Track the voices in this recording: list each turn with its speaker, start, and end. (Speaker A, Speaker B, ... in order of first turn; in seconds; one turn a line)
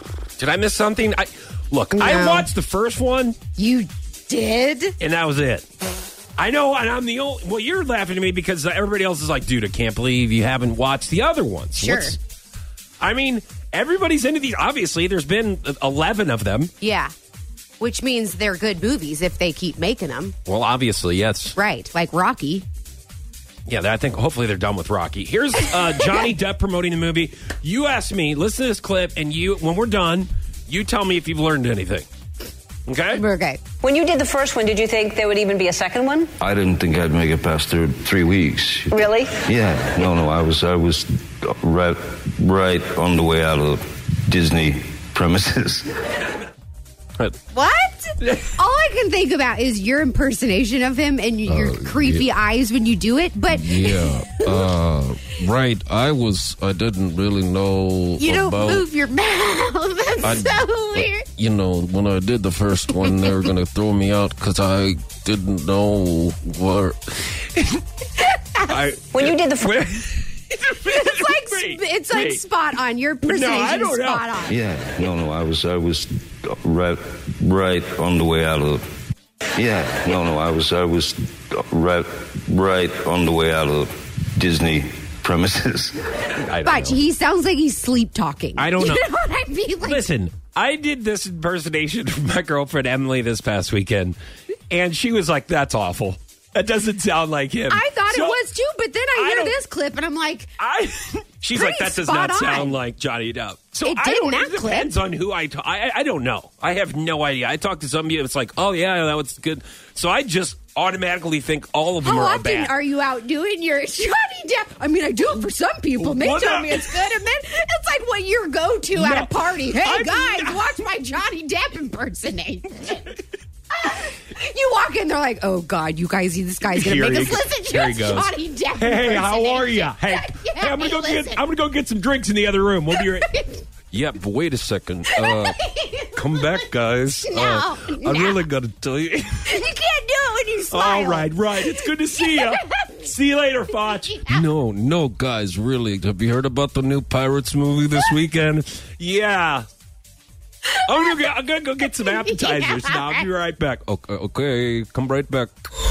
Speaker A: 0.4-3.4
Speaker B: 1.9-2.5
Speaker B: 3.5-4.9
Speaker A: 5.0-5.7
Speaker A: 6.4-12.2
Speaker B: 11.8-12.2
Speaker A: 13.0-16.7
Speaker B: 16.8-17.1
Speaker B: 17.8-20.3
Speaker A: 20.4-21.5
Speaker B: 21.6-22.6
Speaker A: 23.6-32.1
Speaker A: 32.9-33.2
Speaker B: 33.1-33.6
Speaker C: 33.8-36.3
Speaker D: 36.4-46.1
Speaker C: 38.9-39.3
Speaker B: 47.5-54.7
Speaker A: 48.2-48.5
Speaker E: 51.5-52.3
Speaker E: 53.5-58.9
Speaker B: 58.2-61.3
Speaker E: 60.2-67.3
Speaker B: 63.0-63.5
Speaker A: 67.5-67.8
Speaker B: 68.2-68.8
Speaker A: 68.6-72.4
Speaker C: 69.1-69.8
Speaker B: 70.7-74.6
Speaker A: 73.2-74.3
Speaker D: 74.5-78.8
Speaker D: 79.5-86.2
Speaker A: 86.4-87.0
Speaker B: 86.6-90.1
Speaker A: 88.6-89.0
Speaker A: 89.8-94.2
Speaker A: 94.7-98.4
Speaker B: 97.7-100.5
Speaker A: 99.1-99.6
Speaker A: 100.6-112.7
Speaker B: 101.5-102.8
Speaker B: 103.8-104.9
Speaker B: 112.0-123.2
Speaker A: 116.0-117.2
Speaker A: 118.9-120.8
Speaker B: 123.7-131.4
Speaker A: 126.6-133.3
Speaker B: 132.9-133.6
Speaker A: 133.9-135.5
Speaker B: 135.1-136.7
Speaker A: 136.1-139.6
Speaker B: 137.2-138.5
Speaker B: 139.4-143.0
Speaker A: 140.7-144.5
Speaker B: 144.0-144.4
Speaker E: 144.3-148.6
Speaker A: 147.8-149.7
Speaker A: 150.8-153.9
Speaker B: 151.8-153.2
Speaker E: 153.9-155.5